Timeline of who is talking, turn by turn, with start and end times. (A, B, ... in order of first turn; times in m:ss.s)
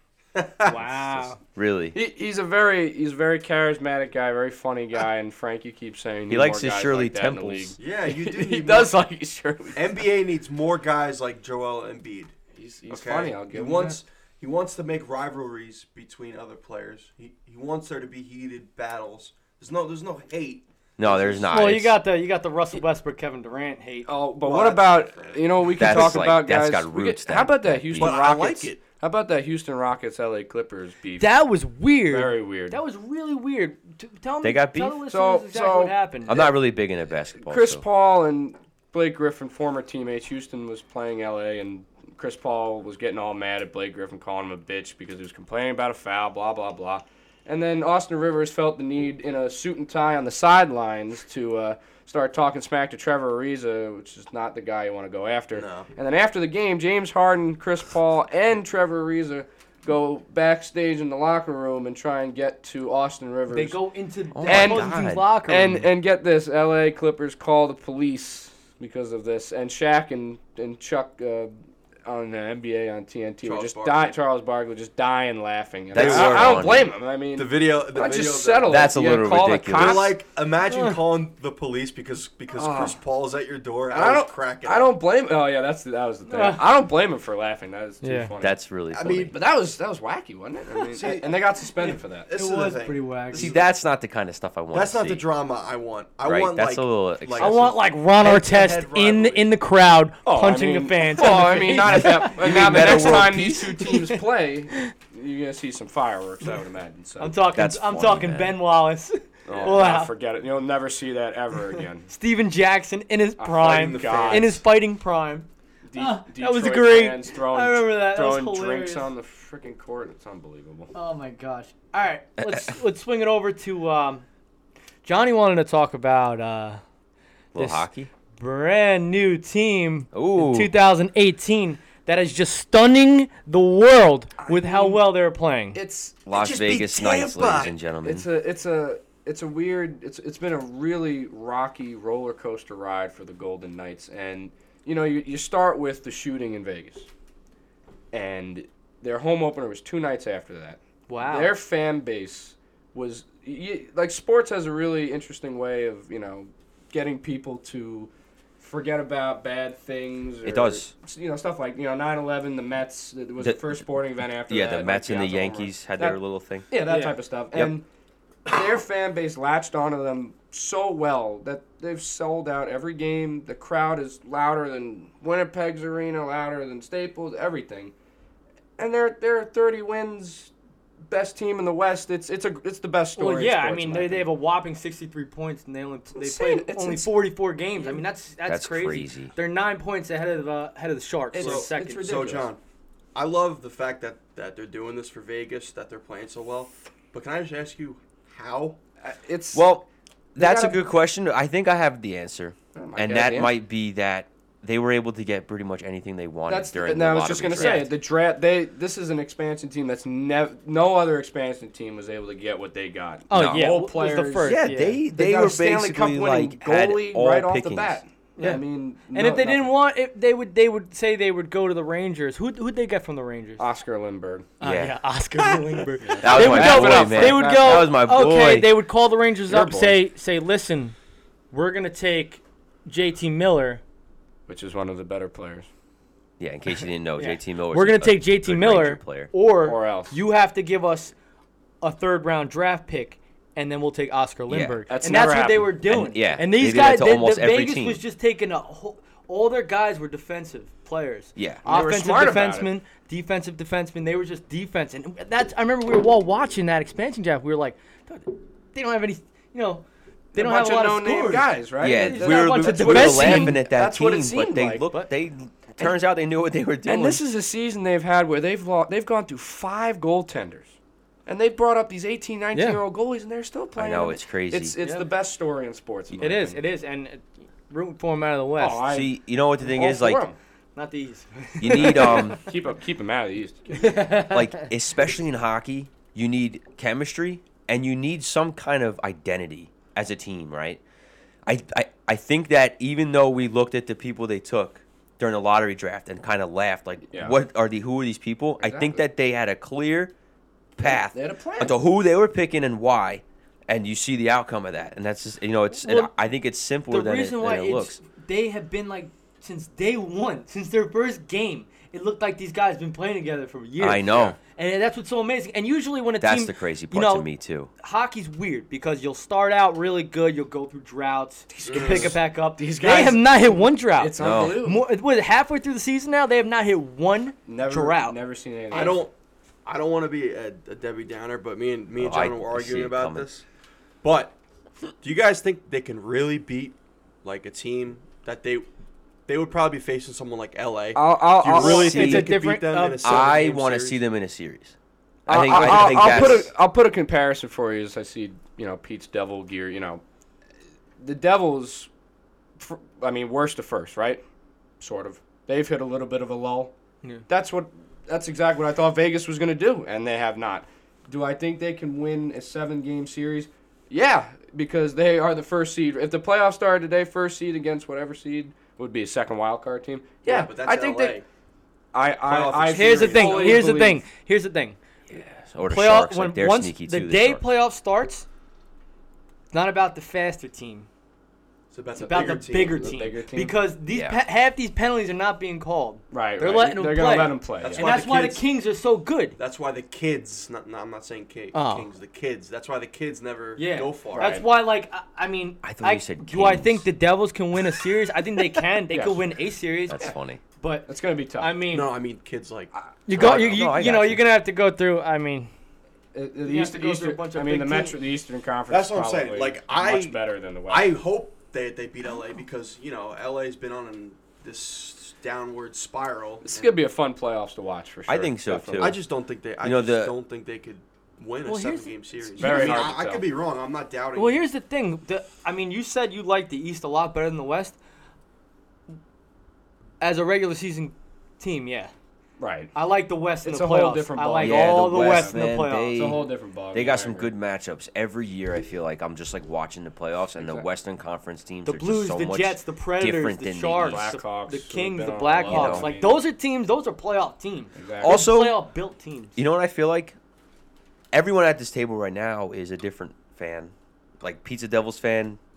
0:00.3-0:00.7 A
0:00.6-0:01.4 B
0:00.9-0:01.3 C
0:01.6-0:02.0 D
0:01.9-0:10.0 C
0:06.3-0:07.7 D
0:07.8-0:09.0 A
0:09.7-0:12.3 A
0:12.5-0:14.0 C
0:12.9-0:21.5 A
0:21.0-0:22.0 D
0:21.5-0:24.1 B
0:24.0-0:31.3 C
0:24.4-0:26.3 A
0:25.7-0:28.2 D
0:28.0-0:28.8 A
0:31.2-0:36.4 B
0:32.1-0:32.8 C
0:34.4-0:35.0 D
0:35.1-0:36.5 C
0:36.3-0:37.8 D
0:37.4-1:03.8 C
0:55.5-0:55.9 A
1:03.5-1:05.8 B
1:04.3-1:05.3 D
1:04.4-1:20.2 C
1:13.4-1:14.1 A
1:15.9-1:16.9 D
1:15.9-1:18.9 A
1:18.6-1:20.2 D
1:19.7-1:25.0 A
1:20.6-1:21.0 B
1:22.5-1:23.0 C
1:23.9-1:28.6 C
1:26.2-1:26.6 B
1:28.0-1:28.3 B
1:28.4-1:29.4 D
1:28.9-1:29.4 A
1:29.3-1:32.3 C
1:30.8-1:33.7 A
1:32.3-1:33.5 B
1:33.3-1:35.2 D
1:34.7-1:39.5 A
1:36.2-1:37.6 D
1:37.4-1:43.2 B
1:40.2-1:47.4 C
1:41.8-1:43.9 D
1:43.8-1:44.2 B
1:47.2-1:50.1 B
1:47.5-1:48.6 D
1:49.4-1:52.1 C
1:49.5-1:49.8 A
1:52.1-1:59.1 B
1:53.4-1:54.6 C
1:53.6-1:54.6 A
1:55.8-2:00.9 C
2:00.9-2:04.2 B
2:02.4-2:02.7 D
2:05.0-2:06.8 B
2:07.5-2:08.1 D
2:07.6-2:15.8 B
2:10.1-2:10.7 D
2:14.4-2:15.1 C
2:15.7-2:16.2 C
2:16.2-2:18.3 D
2:16.4-2:17.6 B
2:18.0-2:27.1 C
2:28.1-2:47.8 C
2:31.1-2:31.5 B
2:40.4-2:40.9 D
2:43.4-2:43.8 D
2:44.4-2:46.7 D
2:46.8-2:47.2 B
2:48.4-2:57.9 C
2:58.8-3:00.5 C
3:01.1-3:04.3 C
3:03.2-3:12.3 B
3:06.2-3:07.1 C
3:08.5-3:09.3 D
3:11.3-3:12.5 C
3:11.3-3:12.6 A
3:13.1-3:18.8 A
3:19.0-3:19.6 C
3:19.5-3:27.9 D
3:20.4-3:20.8 C
3:22.7-3:23.5 C
3:26.5-3:39.7 C
3:27.5-3:27.9 B
3:33.3-3:35.0 B
3:33.3-3:33.8 D
3:34.4-3:38.0 D
3:38.4-3:43.6 B
3:43.6-3:44.5 C
3:44.6-3:50.9 B
3:44.6-3:45.0 D
3:46.0-3:47.9 C
3:46.2-3:48.7 D
3:49.5-3:50.0 C
3:51.5-3:53.8 B
3:54.5-3:55.7 C
3:56.4-3:59.3 D
3:57.2-4:01.1 B
3:59.6-4:00.2 C
4:01.8-4:23.6 B
4:04.5-4:04.9 D
4:04.9-4:05.8 C
4:05.9-4:08.0 D
4:11.4-4:11.6 D
4:11.6-4:12.7 C
4:20.3-4:24.9 C
4:21.8-4:27.2 D
4:26.8-4:30.8 C
4:31.3-4:36.6 C
4:32.5-4:32.8 B
4:33.8-4:34.7 D
4:34.8-4:35.1 B
4:36.2-4:38.8 B
4:38.6-4:40.4 C
4:38.9-4:40.2 D
4:40.8-4:42.4 B
4:41.6-4:42.4 D
4:41.7-4:44.0 C
4:43.7-4:44.6 B
4:44.2-4:50.8 D
4:51.4-5:00.1 D
4:57.1-4:57.4 C
4:58.6-4:59.0 C
5:00.7-5:08.0 D
5:00.8-5:01.8 C
5:05.7-5:06.1 B
5:06.9-5:17.3 B
5:13.8-5:14.4 D
5:14.1-5:14.4 A
5:16.2-5:17.7 D
5:17.8-5:28.2 B
5:21.5-5:24.9 C
5:21.6-5:22.2 A
5:24.2-5:24.6 D
5:27.4-5:29.0 C
5:28.7-5:29.1 A
5:29.6-5:33.4 A
5:32.0-5:33.3 D
5:34.0-5:34.4 A
5:35.0-5:38.7 A
5:39.3-5:44.0 A
5:40.9-5:42.2 C
5:41.5-5:42.3 D
5:41.6-5:43.3 B
5:43.0-5:44.7 D
5:45.2-5:46.5 D
5:45.3-5:50.0 C
5:45.5-5:46.4 A
5:51.0-5:51.9 C
5:52.6-5:54.2 C
5:54.8-5:56.7 C
5:57.3-6:11.2 C
6:10.2-6:11.2 A
6:11.9-6:14.0 C
6:12.2-6:13.7 A
6:12.7-6:14.8 B
6:15.1-6:17.4 D
6:15.7-6:18.2 B
6:19.5-6:20.9 B
6:21.7-6:22.9 A
6:21.9-6:29.4 B
6:22.1-6:23.6 C
6:23.9-6:24.2 D
6:26.1-6:28.1 C
6:27.6-6:28.4 A
6:29.4-6:34.4 A
6:31.5-6:31.9 B
6:33.6-6:41.9 B
6:34.1-6:34.5 C
6:35.6-6:36.8 D
6:38.9-6:39.2 C
6:39.9-6:40.4 D
6:40.9-6:41.5 C
6:41.7-6:43.6 A
6:43.1-6:45.5 B
6:43.1-6:44.2 D
6:46.1-6:50.9 C
6:46.4-6:48.0 B
6:48.7-6:56.7 A
6:56.4-6:58.9 C
6:58.1-6:59.0 D
6:58.8-7:04.4 A
6:59.6-7:00.1 D
7:01.4-7:02.9 B
7:02.4-7:03.2 C
7:04.1-7:07.8 B
7:10.0-7:11.9 B
7:12.4-7:12.7 C
7:12.7-7:16.1 B
7:13.4-7:17.3 C
7:14.4-7:24.0 D
7:20.4-7:20.7 C
7:21.6-7:29.4 B
7:23.6-7:26.2 C
7:25.4-7:25.9 D
7:27.7-7:28.2 C
7:28.0-7:28.6 D
7:29.4-7:30.2 D
7:31.1-7:35.4 D